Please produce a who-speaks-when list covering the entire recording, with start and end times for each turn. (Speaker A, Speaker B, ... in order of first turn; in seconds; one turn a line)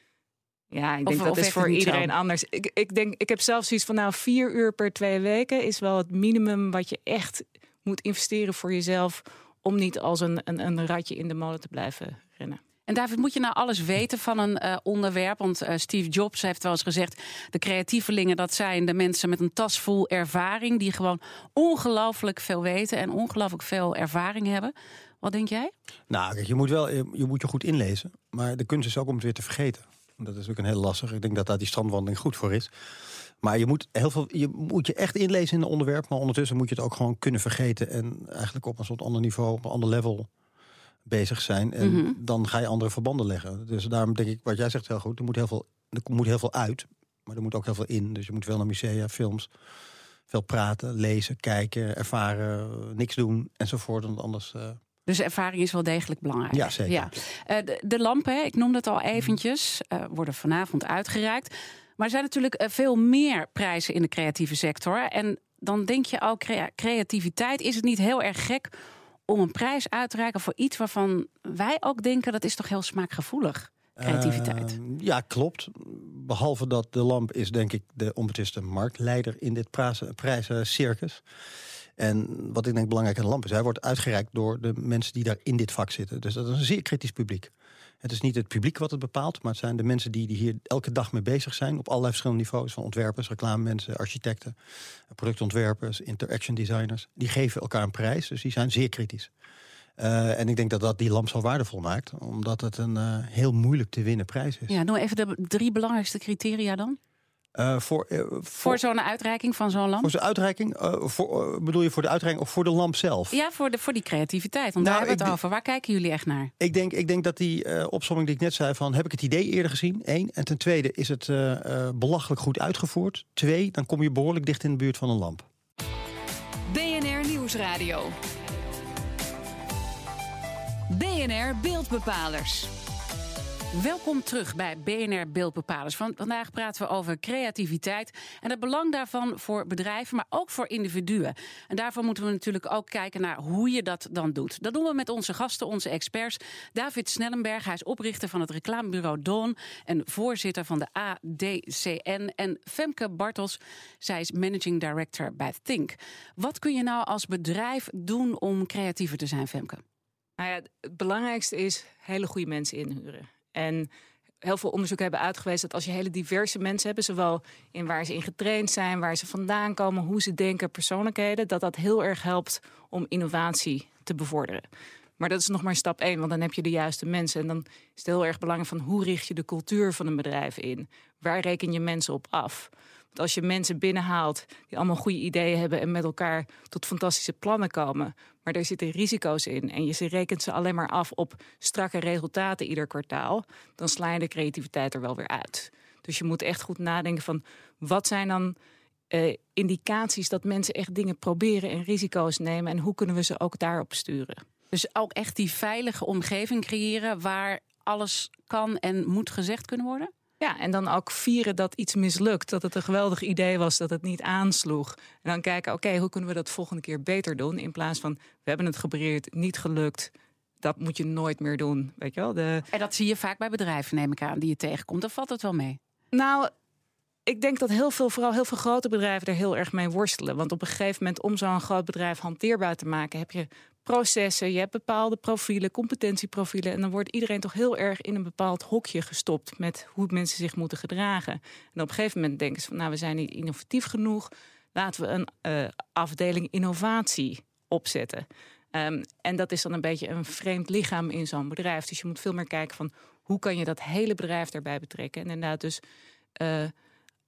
Speaker A: 0.7-12.6
Speaker B: 1.1-2.1
Speaker B: 12.9-25.7
Speaker C: 26.1-32.7
Speaker C: 33.4-40.3
Speaker C: 41.1-49.5
Speaker B: 41.8-42.2
Speaker C: 50.3-54.8
Speaker B: 55.1-68.7
Speaker C: 56.5-57.1
Speaker B: 69.3-74.8
Speaker C: 74.0-81.2
Speaker C: 82.0-87.5
Speaker C: 88.0-94.6
Speaker C: 95.1-99.3
Speaker C: 100.0-104.8
Speaker B: 104.7-107.0
Speaker C: 107.5-108.8
Speaker B: 108.6-110.1
Speaker C: 110.0-113.4
Speaker B: 113.3-116.5
Speaker C: 114.8-115.4
Speaker C: 116.6-125.5
Speaker D: 126.7-128.2
Speaker D: 130.9-132.7
Speaker B: 133.7-159.8
Speaker A: 160.4-163.9
Speaker A: 164.4-174.7
Speaker A: 175.2-198.6
Speaker A: 199.1-204.4
Speaker B: 204.7-210.1
Speaker A: 210.4-220.1
Speaker A: 220.6-222.7
Speaker B: 222.7-225.8
Speaker A: 226.1-226.5
Speaker A: 227.3-255.8
Speaker A: 256.4-256.7